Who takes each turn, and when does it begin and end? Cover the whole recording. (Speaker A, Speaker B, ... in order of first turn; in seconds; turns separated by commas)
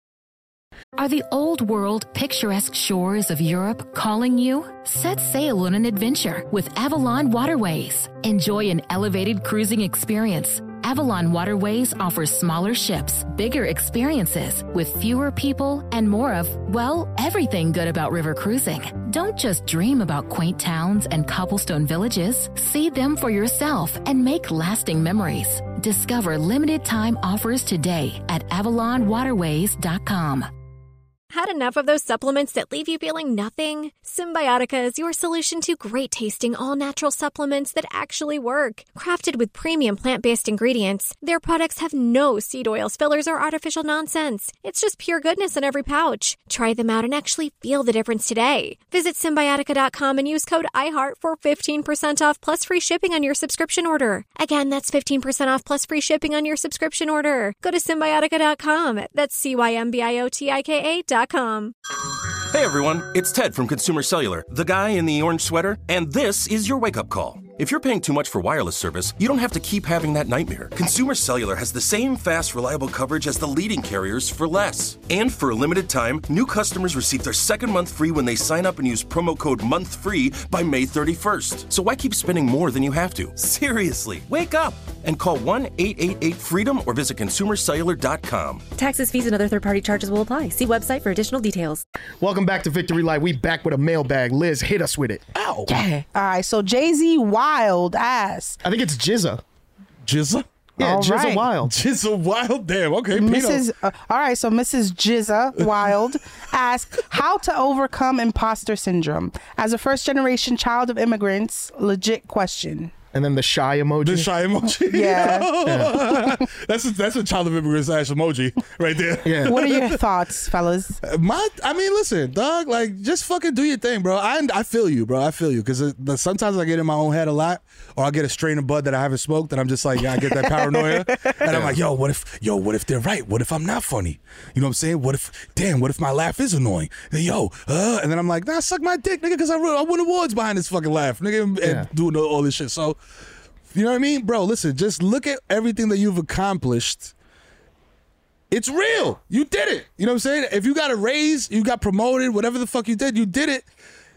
Speaker A: 1.0-30.5, Speaker B: 31.3-61.7, Speaker C: 62.3-88.7, Speaker D: 88.8-91.8, Speaker E: 92.2-95.3, Speaker F: 95.3-95.7, Speaker G: 96.0-98.6, Speaker E: 98.6-99.4, Speaker F: 100.0-100.5, Speaker E: 100.8-101.8, Speaker G: 100.8-101.5, Speaker F: 101.7-103.6, Speaker G: 103.1-112.9, Speaker F: 105.6-105.9, Speaker E: 113.1-114.3, Speaker F: 114.0-120.0, Speaker G: 114.9-115.6, Speaker E: 115.7-115.9, Speaker E: 119.2-119.6, Speaker G: 119.5-121.0, Speaker F: 121.0-143.0, Speaker G: 130.2-131.4, Speaker E: 141.6-141.9, Speaker F: 143.7-147.1, Speaker F: 148.5-153.7